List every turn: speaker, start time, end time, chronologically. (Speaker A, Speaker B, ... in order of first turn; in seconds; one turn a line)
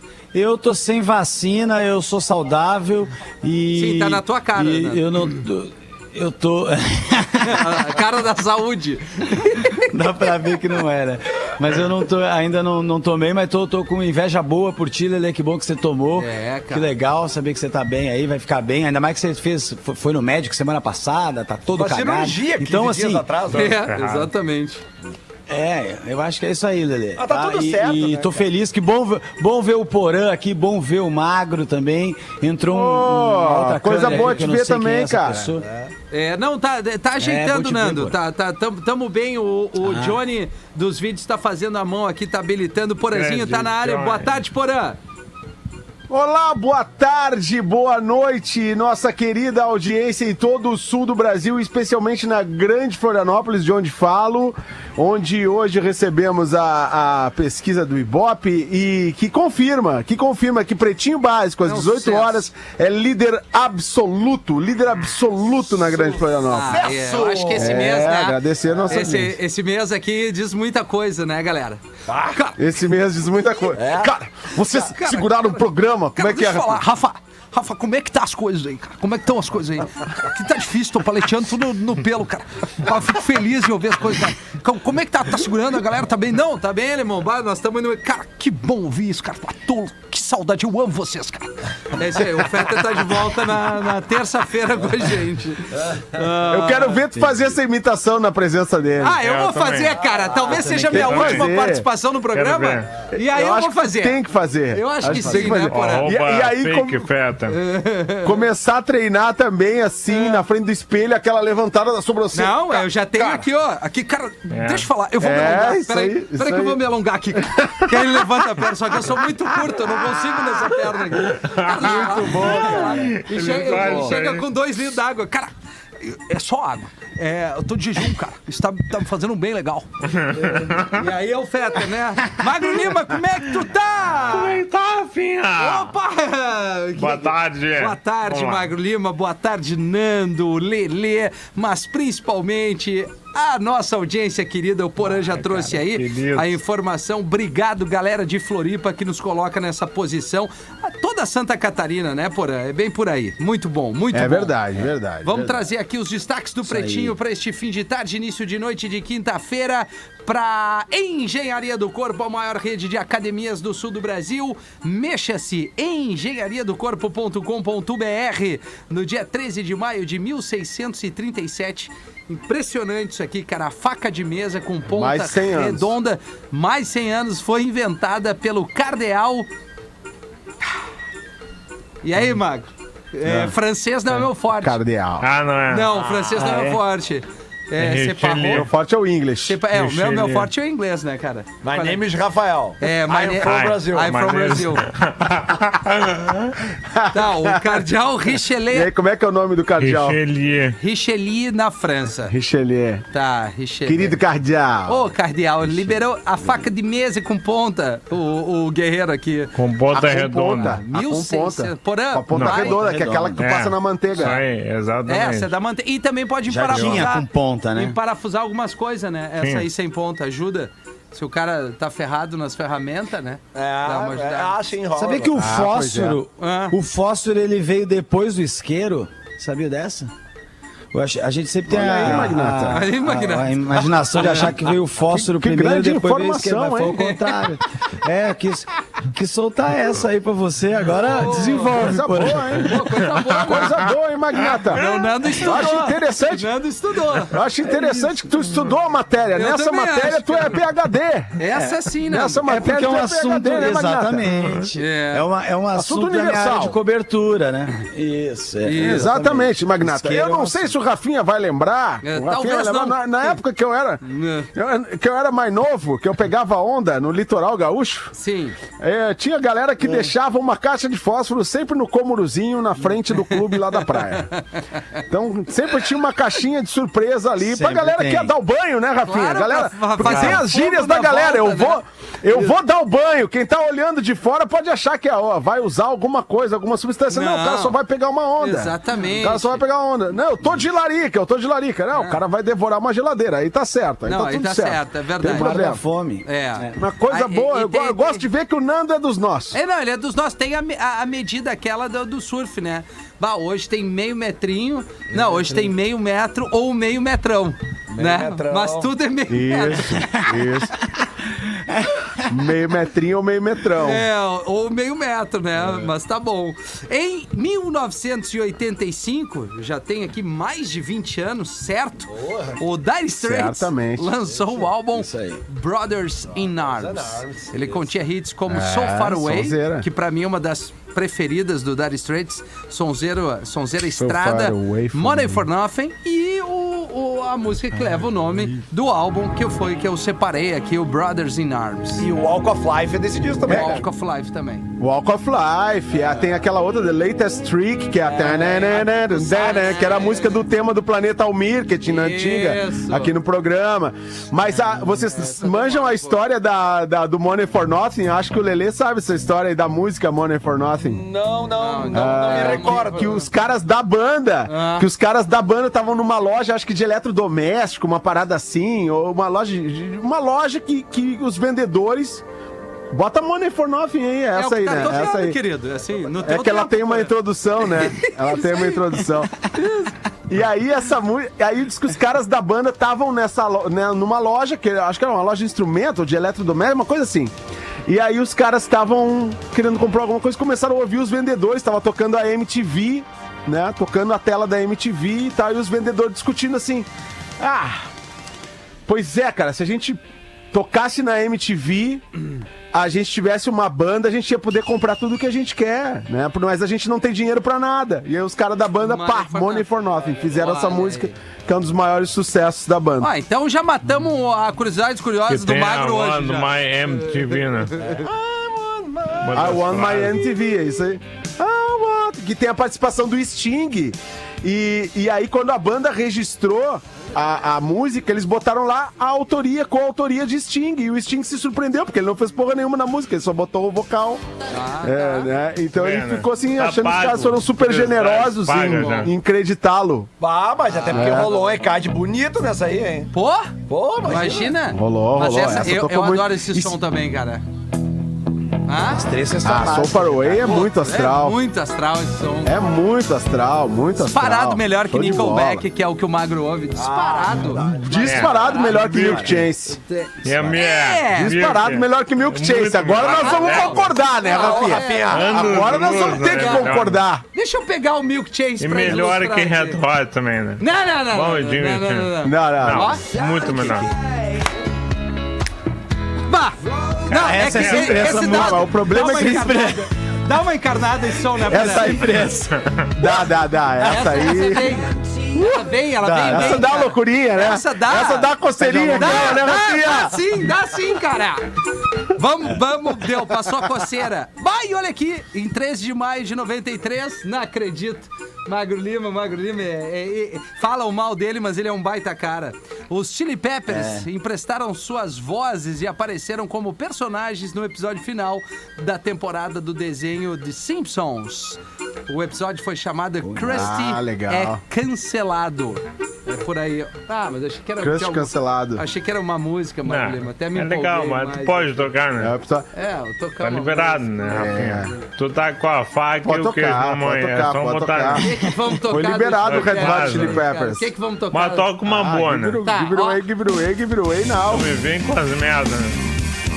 Speaker A: 0.3-7.9
Speaker B: 3.7-5.1
Speaker B: 7.4-9.8
Speaker A: 9.4-23.3
Speaker B: 16.2-16.9
Speaker C: 21.7-23.7
Speaker D: 23.5-24.3
Speaker B: 23.5-24.8
Speaker A: 25.5-35.6
Speaker C: 27.2-28.4
Speaker E: 32.7-35.5
Speaker C: 35.6-35.9
Speaker B: 36.1-45.0
Speaker A: 37.2-38.2
Speaker A: 39.8-40.2
Speaker D: 43.1-44.4
Speaker E: 46.1-66.9
Speaker B: 61.6-62.5
Speaker B: 66.5-72.6
Speaker C: 66.5-67.9
Speaker E: 67.6-69.4
Speaker C: 72.1-72.4
Speaker E: 72.6-76.8
Speaker C: 73.8-74.2
Speaker B: 74.8-97.0
Speaker E: 96.5-99.2
Speaker B: 99.0-104.2
Speaker D: 99.2-100.0
Speaker D: 100.7-101.5
Speaker E: 100.8-101.9
Speaker D: 102.3-103.0
Speaker E: 103.1-107.1
Speaker B: 104.7-106.1
Speaker D: 105.1-107.6
Speaker B: 107.5-108.4
Speaker E: 108.2-113.4
Speaker B: 110.1-110.4
Speaker B: 112.3-134.6
Speaker D: 114.5-114.9
Speaker E: 115.2-116.8
Speaker E: 117.4-118.3
Speaker D: 121.3-124.5
Speaker E: 121.8-123.2
Speaker E: 123.8-124.0
Speaker D: 130.1-131.0
Speaker D: 134.2-135.9
Speaker B: 135.6-154.5
Speaker D: 137.0-138.7
Speaker D: 145.2-146.5
Speaker E: 154.1-155.6
Speaker B: 155.2-179.5
Speaker A: 156.6-157.2
Speaker E: 174.9-175.9
Speaker B: 182.0-184.8
Speaker E: 183.2-183.5
Speaker E: 184.6-185.3
Speaker D: 185.2-186.8
Speaker B: 185.7-188.7
Speaker D: 187.8-188.7
Speaker E: 188.5-189.6
Speaker B: 189.4-192.0
Speaker D: 189.7-190.5
Speaker C: 191.6-194.1
Speaker B: 192.8-194.9
Speaker D: 193.4-196.5
Speaker E: 196.9-197.8
Speaker B: 197.1-198.9
Speaker E: 198.7-200.2
Speaker D: 199.8-200.8
Speaker B: 200.8-202.3
Speaker E: 202.3-203.1
Speaker B: 203.1-204.2
Speaker E: 203.8-205.1
Speaker B: 204.9-209.6
Speaker D: 209.6-210.8
Speaker E: 209.9-214.4
Speaker B: 210.1-212.8
Speaker D: 212.3-212.6
Speaker A: 212.5-213.5
Speaker D: 213.4-215.5
Speaker B: 214.2-214.4
Speaker B: 215.1-224.6
Speaker A: 216.5-218.0
Speaker D: 219.4-219.7
Speaker C: 223.5-225.4
Speaker A: 224.9-230.1
Speaker E: 225.4-226.2
Speaker B: 226.4-226.8
Speaker A: 230.9-242.7
Speaker E: 231.7-232.8
Speaker B: 232.7-234.7
Speaker E: 235.0-237.1
Speaker B: 237.0-237.3
Speaker B: 241.2-241.8
Speaker E: 241.7-246.5
Speaker B: 242.6-243.8
Speaker B: 244.7-247.4
Speaker A: 245.4-246.0
Speaker E: 247.3-251.4
Speaker A: 247.8-248.1
Speaker B: 249.3-250.6
Speaker B: 251.4-252.5
Speaker E: 252.1-254.3
Speaker A: 252.4-260.8
Speaker B: 254.8-255.3
Speaker E: 255.7-256.8
Speaker B: 258.6-259.1
Speaker E: 258.8-264.0
Speaker B: 262.0-263.4
Speaker B: 264.0-264.5
Speaker E: 264.6-268.1
Speaker B: 268.1-268.6
Speaker E: 268.8-274.3
Speaker A: 269.8-270.1
Speaker B: 273.2-274.0
Speaker E: 275.1-295.8
Speaker A: 277.4-278.3
Speaker B: 279.1-281.8
Speaker A: 280.0-280.4
Speaker B: 287.1-287.8
Speaker B: 288.4-289.6
Speaker B: 291.9-292.2
Speaker B: 294.1-295.6
Speaker A: 295.2-296.8
Speaker B: 296.2-298.3
Speaker E: 296.8-299.6
Speaker B: 299.5-310.2
Speaker A: 305.1-305.6
Speaker C: 307.9-308.9
Speaker E: 309.3-310.7
Speaker A: 311.4-312.2
Speaker E: 312.3-314.1
Speaker B: 313.8-342.1
Speaker C: 322.1-322.6
Speaker E: 323.2-324.2
Speaker A: 324.9-325.4
Speaker C: 326.4-327.9
Speaker E: 328.5-329.9
Speaker E: 333.9-335.4
Speaker C: 342.0-343.9
Speaker B: 343.4-344.7
Speaker E: 344.8-361.0
Speaker B: 348.2-350.4
Speaker C: 348.2-348.7
Speaker B: 351.9-353.1
Speaker B: 354.8-356.2
Speaker C: 360.9-363.2
Speaker B: 361.6-363.3
Speaker E: 361.9-372.2
Speaker B: 364.5-364.9
Speaker E: 372.9-375.4
Speaker B: 374.4-377.1
Speaker E: 376.2-387.3
Speaker B: 377.8-378.9
Speaker E: 387.9-396.9
Speaker E: 397.4-397.9
Speaker E: 398.9-400.0
Speaker E: 400.5-402.0
Speaker E: 402.7-413.1
Speaker B: 408.8-409.7
Speaker B: 410.3-411.1
Speaker B: 413.0-416.6
Speaker D: 415.3-417.7
Speaker B: 417.1-418.1
Speaker C: 417.8-419.4
Speaker D: 419.2-420.2
Speaker E: 419.3-434.2
Speaker B: 434.5-435.3
Speaker E: 434.8-440.1
Speaker D: 435.8-439.1
Speaker C: 440.2-443.1
Speaker B: 440.7-441.3
Speaker E: 440.9-441.3
Speaker B: 443.1-447.4
Speaker C: 443.7-444.6
Speaker E: 444.7-446.8
Speaker B: 448.7-449.0
Speaker A: 448.9-450.5
Speaker E: 449.4-451.4
Speaker B: 450.4-452.6
Speaker E: 452.4-455.6
Speaker B: 454.0-461.4
Speaker C: 456.7-458.3
Speaker E: 457.6-459.8
Speaker D: 457.9-459.4
Speaker D: 460.2-464.0
Speaker E: 461.1-467.2
Speaker B: 463.0-466.7
Speaker C: 464.3-465.3
Speaker D: 465.1-467.0
Speaker B: 467.3-469.8
Speaker D: 468.6-473.9
Speaker B: 470.6-473.1
Speaker E: 472.2-473.0
Speaker B: 476.3-476.6
Speaker B: 477.1-482.0
Speaker A: 477.1-479.9
Speaker D: 477.2-478.1
Speaker E: 477.9-479.7
Speaker E: 481.5-482.4
Speaker A: 481.5-482.6
Speaker E: 483.0-484.8
Speaker B: 483.8-491.4
Speaker E: 485.4-485.6
Speaker A: 486.0-486.7
Speaker E: 486.3-490.2
Speaker A: 488.7-489.2
Speaker B: 492.1-521.8
Speaker A: 503.7-504.1
Speaker A: 513.2-513.7
Speaker E: 513.5-514.6
Speaker E: 517.8-518.8
Speaker D: 519.9-522.3
Speaker E: 522.2-522.7
Speaker B: 522.7-524.2
Speaker D: 523.4-528.2
Speaker E: 524.3-524.9
Speaker E: 526.2-528.3
Speaker B: 528.2-531.7
Speaker E: 528.9-530.9
Speaker D: 529.5-530.5
Speaker D: 531.3-532.6
Speaker E: 531.9-534.7
Speaker B: 532.6-533.2
Speaker D: 534.5-536.0